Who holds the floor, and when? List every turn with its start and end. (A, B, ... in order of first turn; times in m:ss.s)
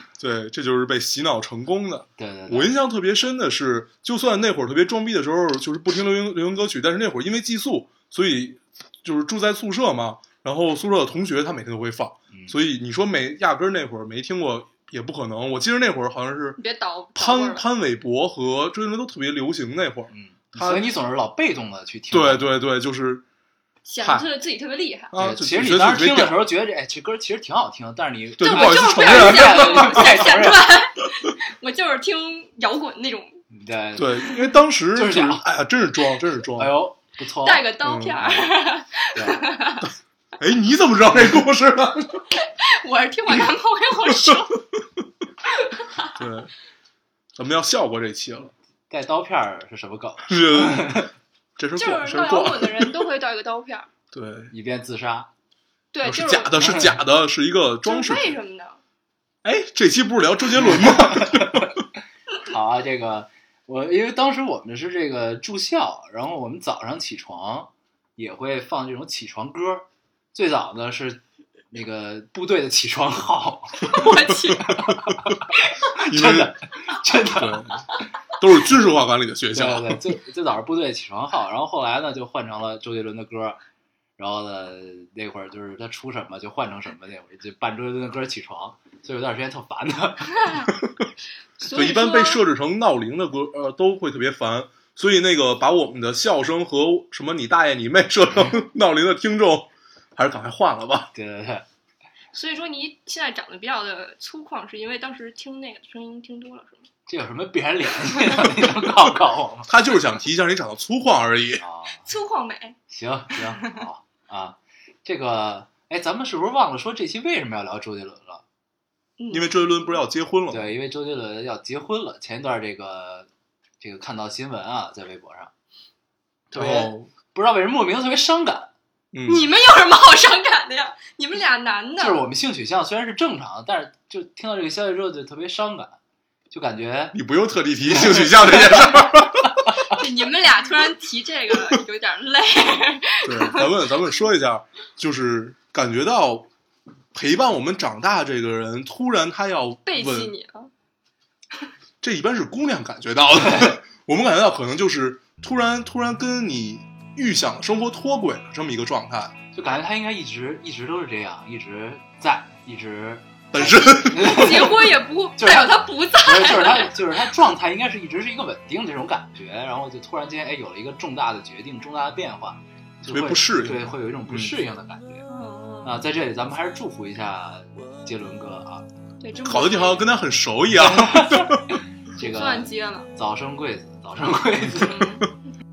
0:00.2-0:16.6 A
0:02.2-0:02.7 B
0:12.3-0:12.6 B
0:16.6-0:17.6 C
0:17.1-0:20.9 A
0:20.1-0:22.5 B
0:22.1-0:23.2 A
0:23.8-0:25.1 C
0:24.0-0:24.3 A
0:25.1-0:26.4 A
0:25.2-0:30.8 B
0:28.4-0:30.4 A
0:28.4-0:33.4 C
0:33.5-0:34.3 B
0:34.0-0:36.8 A
0:34.9-0:35.4 B
0:36.6-0:38.5 B
0:37.4-0:39.9 C
0:37.8-0:38.2 A
0:39.1-0:39.4 B
0:40.4-0:42.3 A
0:42.4-0:44.6 C
0:45.5-0:46.2 C
0:46.2-0:46.5 A
0:47.4-0:48.5 A
0:48.9-0:51.1 B
0:50.3-0:53.0 A
0:51.8-0:53.9 C
0:54.1-0:54.5 A
0:54.5-0:55.3 B
0:55.9-0:56.6 C
0:56.0-0:58.4 A
0:56.6-0:57.0 B
0:57.8-0:58.8 C
0:59.4-1:01.8 A
1:00.8-1:01.7 B
1:02.4-1:17.8 B
1:13.9-1:14.7 C
1:16.0-1:16.6 A
1:17.2-1:20.0 A
1:19.5-1:23.6 B
1:24.2-1:30.7 B
1:31.6-1:32.4 C
1:31.7-1:41.1 A
1:41.1-1:41.6 B
1:42.3-1:46.9 C
1:47.1-1:49.7 B
1:49.7-1:51.6 A
1:51.6-1:52.0 B
1:52.0-1:52.8 C
1:52.9-1:58.4 B
1:53.4-1:53.8 C
1:59.2-2:00.0 C
1:59.3-2:00.7 A
2:00.5-2:03.3 B
2:03.8-2:05.5 B
2:06.5-2:08.7 B
2:06.5-2:07.1 A
2:09.1-2:09.5 A
2:09.2-2:12.2 C
2:12.0-2:16.0 B
2:16.5-2:17.2 B
2:17.1-2:19.6 A
2:17.8-2:18.9 B
2:19.9-2:23.8 C
2:23.2-2:26.5 A
2:27.1-2:30.3 A
2:29.8-2:30.7 C
2:32.0-2:39.3 A
2:39.5-2:55.2 B
2:43.5-2:44.7 A
2:44.2-2:47.0 C
2:53.0-2:54.5 A
2:55.3-2:56.0 C
2:55.8-2:58.9 B
2:59.2-3:00.1 C
2:59.4-3:01.6 A
3:00.8-3:05.2 B
3:02.2-3:03.1 C
3:04.7-3:05.3 C